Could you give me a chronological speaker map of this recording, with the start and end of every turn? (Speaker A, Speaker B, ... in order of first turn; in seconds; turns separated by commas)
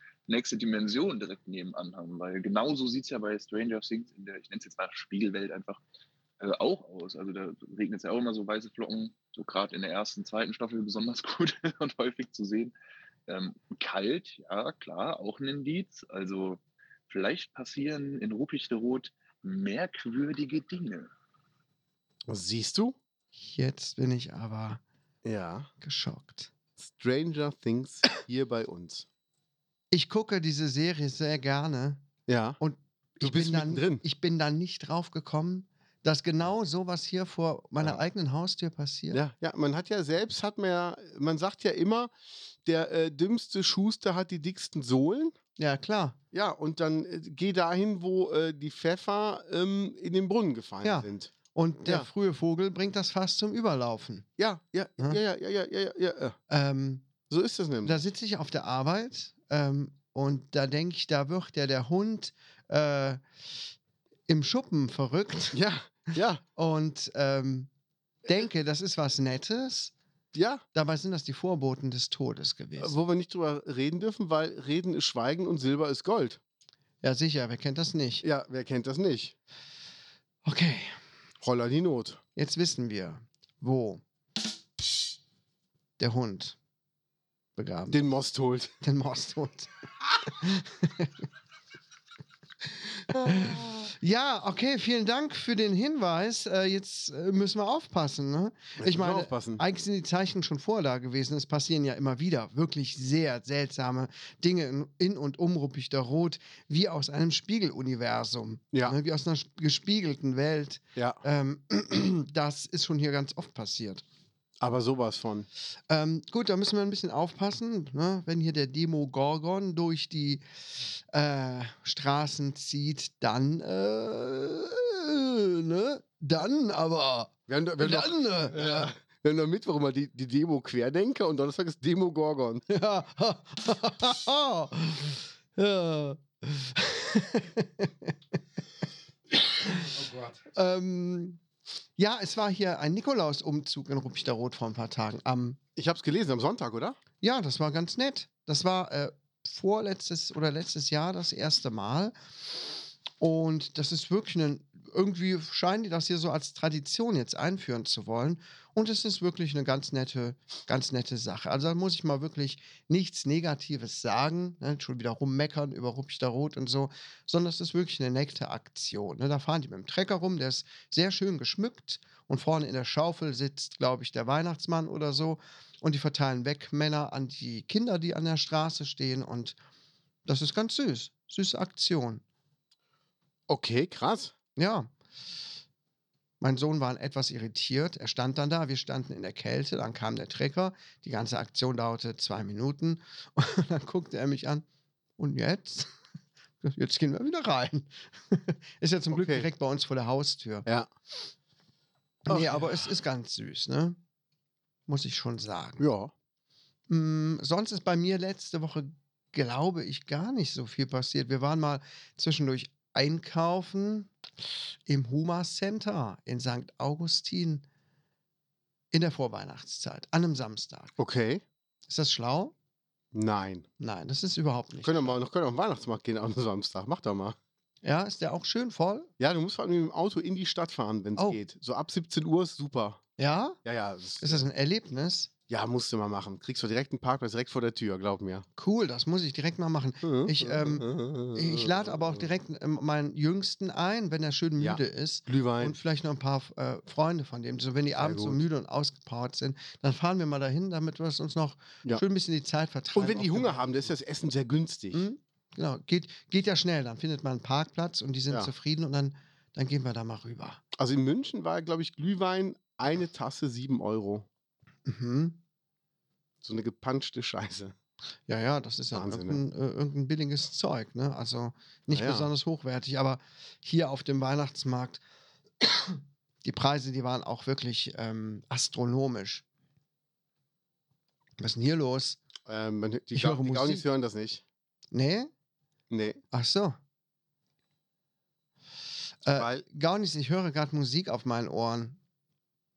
Speaker A: 0.3-5.8, Speaker A: 6.4-12.7, Speaker A: 13.3-21.1, Speaker B: 22.3-23.0, Speaker C: 23.4-24.8, Speaker B: 25.2-25.7, Speaker C: 25.8-26.5, Speaker B: 26.8-29.1, Speaker C: 29.9-32.0, Speaker B: 32.3-32.6, Speaker C: 32.6-39.2, Speaker B: 33.2-34.0, Speaker B: 39.1-42.1, Speaker B: 42.6-45.4, Speaker C: 45.6-46.2, Speaker B: 46.3-52.1, Speaker C: 50.8-54.3, Speaker B: 54.4-56.4, Speaker C: 56.5-57.1, Speaker B: 57.3-58.0, Speaker C: 57.8-63.2, Speaker C: 64.3-65.6, Speaker B: 65.5-66.4, Speaker C: 66.5-67.7, Speaker C: 68.2-69.9, Speaker B: 70.3-70.6, Speaker C: 70.7-73.0, Speaker B: 72.8-76.4, Speaker C: 77.0-78.2, Speaker B: 78.2-79.3, Speaker C: 80.4-81.0, Speaker B: 81.4-82.2, Speaker C: 82.3-84.0, Speaker C: 86.0-86.6, Speaker C: 87.6-88.0, Speaker B: 87.9-88.7, Speaker C: 88.8-89.7, Speaker C: 90.2-91.2, Speaker B: 93.1-93.7, Speaker C: 93.2-114.0, Speaker B: 98.8-99.6, Speaker B: 111.0-111.2, Speaker B: 114.6-115.5, Speaker C: 115.9-120.4, Speaker C: 121.1-128.9, Speaker B: 127.5-132.6, Speaker C: 132.7-138.1, Speaker C: 140.5-141.4, Speaker C: 142.0-145.6, Speaker B: 145.8-147.0, Speaker C: 147.2-152.1, Speaker C: 153.2-179.6, Speaker C: 180.2-182.2, Speaker B: 183.5-184.3, Speaker C: 184.6-184.9, Speaker C: 186.4-194.6, Speaker C: 195.2-195.9, Speaker C: 196.6-200.7, Speaker B: 199.1-199.5, Speaker C: 202.2-204.0, Speaker B: 202.3-202.9, Speaker C: 204.9-205.8, Speaker B: 205.8-206.1, Speaker C: 206.9-214.1, Speaker C: 214.8-217.6, Speaker C: 218.9-220.9, Speaker B: 221.0-221.4, Speaker C: 221.9-222.5, Speaker B: 223.1-223.7, Speaker C: 223.8-225.2, Speaker B: 224.8-227.4, Speaker C: 227.8-229.1, Speaker B: 229.2-233.0, Speaker C: 233.2-233.6, Speaker B: 233.6-234.4, Speaker C: 234.2-235.3, Speaker B: 235.5-238.4, Speaker C: 238.6-253.9, Speaker B: 240.0-242.3, Speaker B: 244.6-245.8, Speaker B: 248.0-248.4, Speaker B: 252.9-255.0, Speaker C: 254.9-260.6, Speaker B: 260.7-264.3, Speaker C: 264.9-265.4, Speaker B: 266.4-267.7, Speaker C: 268.3-275.0, Speaker B: 268.9-269.4, Speaker B: 271.9-272.3, Speaker C: 275.6-279.4, Speaker C: 281.4-282.2, Speaker B: 282.4-284.4, Speaker C: 283.1-283.8, Speaker C: 284.9-285.3, Speaker B: 285.9-286.2, Speaker C: 286.3-286.8, Speaker C: 289.2-292.0, Speaker B: 289.3-289.6